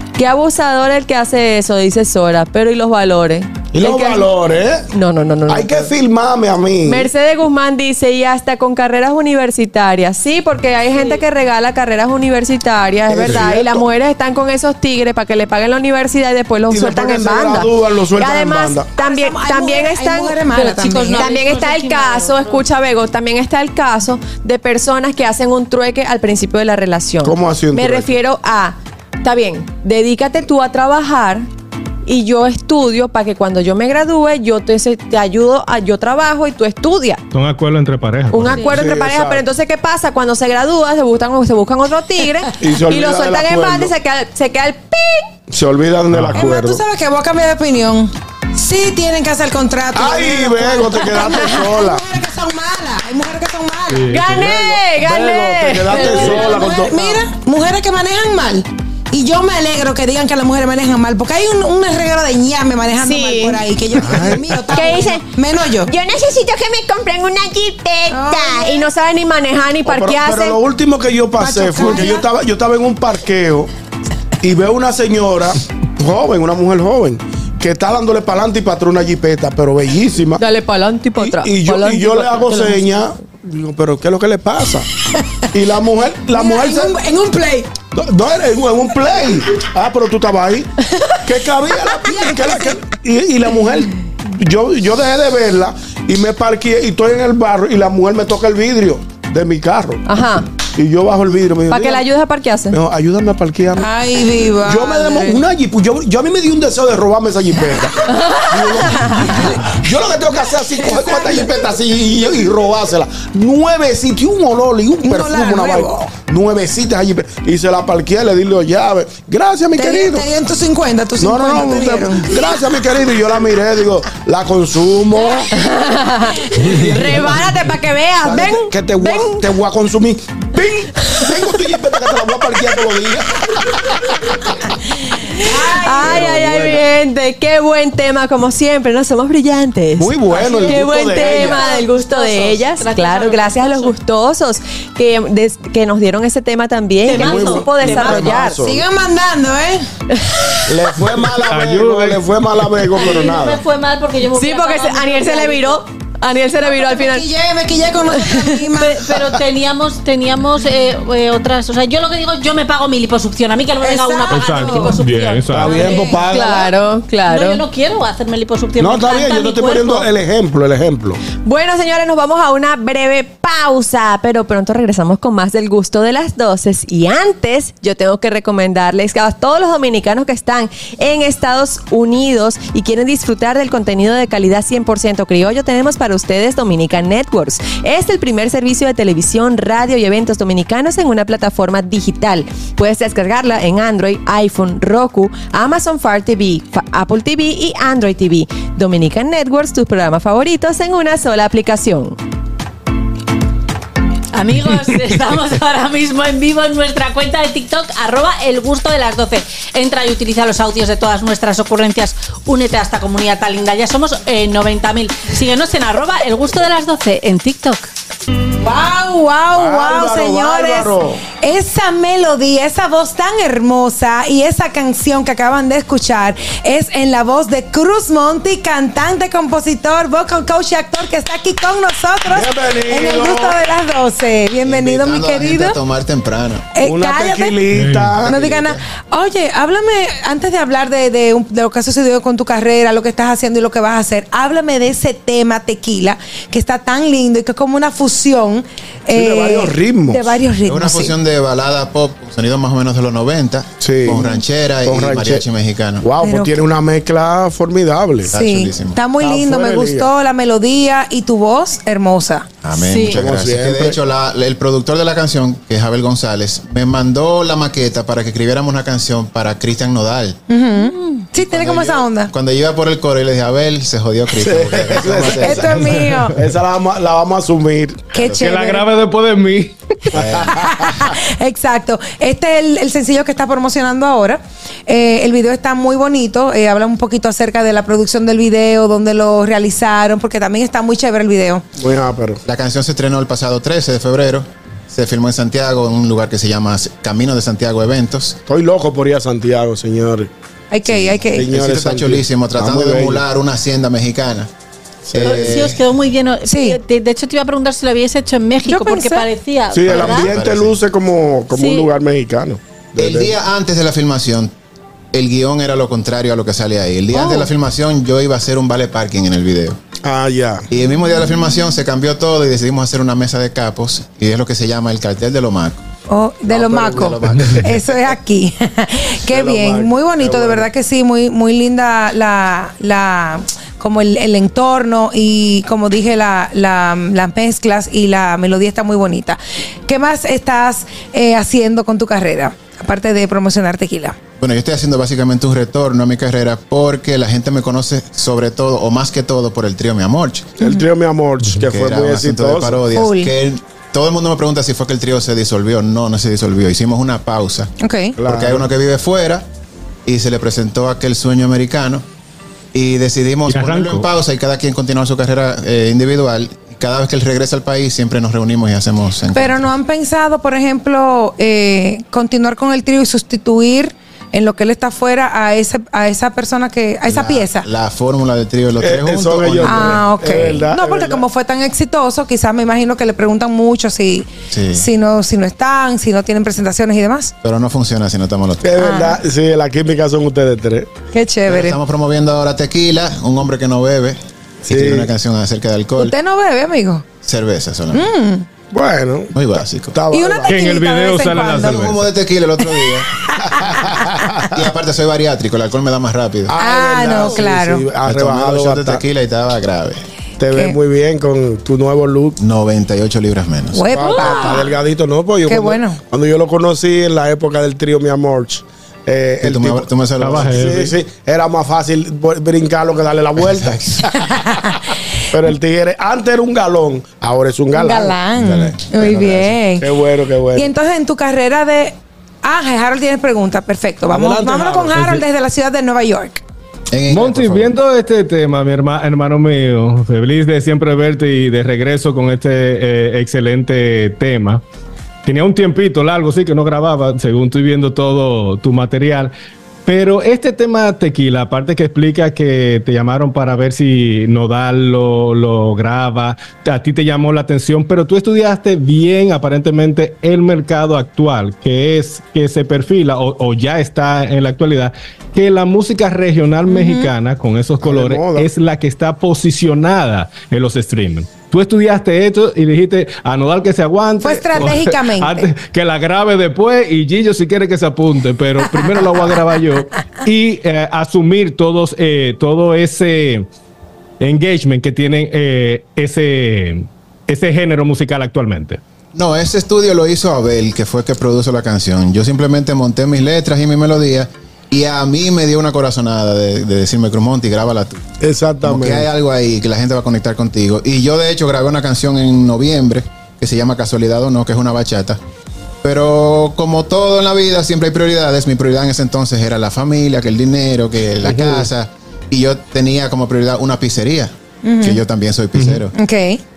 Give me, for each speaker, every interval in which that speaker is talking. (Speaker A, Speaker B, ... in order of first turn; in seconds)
Speaker A: 0.2-4.3, 4.9-5.9, 6.9-20.4, 21.1-31.5, 32.1-37.2, 38.3-45.3, 54.1-56.8, 63.0-63.6, 64.7-65.3, 65.9-70.6, 71.8-72.2, 80.4-82.9, 100.0-100.5, 101.7-102.8, 108.1-109.4, 125.5-129.5, 135.4-148.6, 154.3-157.3, 158.2-158.6, 166.3-167.6, 171.4-202.2
Speaker B: 3.7-4.9, 5.5-7.1, 13.1-13.8, 16.7-18.9, 27.2-28.1, 38.7-39.4, 42.6-43.9, 45.5-46.8, 49.9-52.0, 54.3-57.0, 64.1-64.9, 69.8-73.7, 74.4-80.4, 81.2-84.9, 85.5-87.0, 87.9-90.7, 91.2-100.0, 100.8-102.0, 102.7-103.9, 104.6-120.3, 121.2-125.5, 126.6-127.6, 128.2-134.4, 135.9-136.8, 140.0-141.7, 147.2-148.8, 150.7-153.6, 165.5-166.6, 168.8-171.2, 219.5-221.2, 232.3-233.6, 236.8-238.5, 249.1-250.3, 253.8-254.3, 254.8-255.4, 256.0-258.3, 259.2-260.1, 263.1-264.0, 274.4-275.8, 276.4-278.1, 291.8-292.4, 298.5-300.3, 301.3-303.2, 305.1-305.6, 309.7-313.3, 320.0-320.7, 326.5-327.2, 329.3-330.7, 350.6-352.8, 358.2-358.7, 378.8-381.2, 388.6-390.9, 394.7-395.1, 398.7-399.3, 399.9-400.6, 403.9-404.5, 406.5-409.0, 410.4-412.4, 413.9-423.8, 425.3-428.2, 429.1-430.7, 434.1-435.2, 467.8-468.5, 498.2-499.1, 511.2-511.6
Speaker C: 19.0-21.3, 46.3-54.1, 55.9-65.9, 68.1-68.9, 71.4-72.2, 86.3-87.7, 92.1-92.8, 103.8-105.4, 109.1-109.5, 110.8-111.5, 115.0-116.1, 119.8-122.4, 135.4-136.3, 148.6-149.9, 156.6-159.0, 163.8-164.9, 218.6-235.8, 236.8-237.6, 238.2-251.2, 256.2-256.6, 258.3-262.5, 270.5-272.3, 275.3-276.4, 278.1-278.9, 280.5-291.6, 300.7-301.5, 306.5-306.8, 308.7-309.3, 317.1-317.4, 326.1-344.2, 352.9-353.3, 357.8-358.2, 369.3-377.7, 379.6-387.3, 388.8-389.2, 391.1-391.8, 396.0-397.1, 397.9-398.5, 400.1-401.9, 402.7-404.3, 406.6-407.9, 413.7-414.8, 415.5-416.0, 424.4-424.6, 427.7-429.9, 430.6-436.4, 466.7-467.1, 474.2-475.5, 514.6-515.0, 516.0-516.4
Speaker D: 20.5-22.6, 140.6-143.9, 147.1-148.6, 152.9-155.8, 158.8-166.4, 167.3-170.1, 204.3-217.9, 262.9-263.2, 305.2-310.3
Speaker E: 37.3-38.8, 46.1-46.5, 53.9-54.6, 151.4-152.2, 164.3-166.1, 237.7-238.2, 278.3-279.8, 363.5-364.1, 400.5-402.0, 420.2-420.9, 437.1-444.6, 445.2-449.3, 449.9-483.5, 484.2-488.8, 515.6-515.8
Speaker F: 234.6-236.8, 238.3-238.7, 250.6-256.1, 258.3-259.0, 262.6-270.4, 271.4-276.0, 278.1-278.5, 280.1-280.6, 292.4-298.4, 300.9-304.5, 305.1-305.8, 309.8-310.8, 313.0-314.5, 315.1-319.8, 320.7-325.8, 326.5-327.6, 344.4-350.5, 351.4-359.5, 360.1-362.0, 362.7-369.7, 377.1-380.1, 384.5-384.9, 387.4-388.9, 391.5-396.1, 397.2-398.1, 399.3-400.0, 401.5-403.2, 404.5-406.5, 407.1-407.4, 408.0-410.0, 412.4-413.9, 419.4-420.6, 423.4-424.3, 428.4-429.5, 436.9-437.7, 489.1-498.1, 498.6-505.2, 505.8-515.9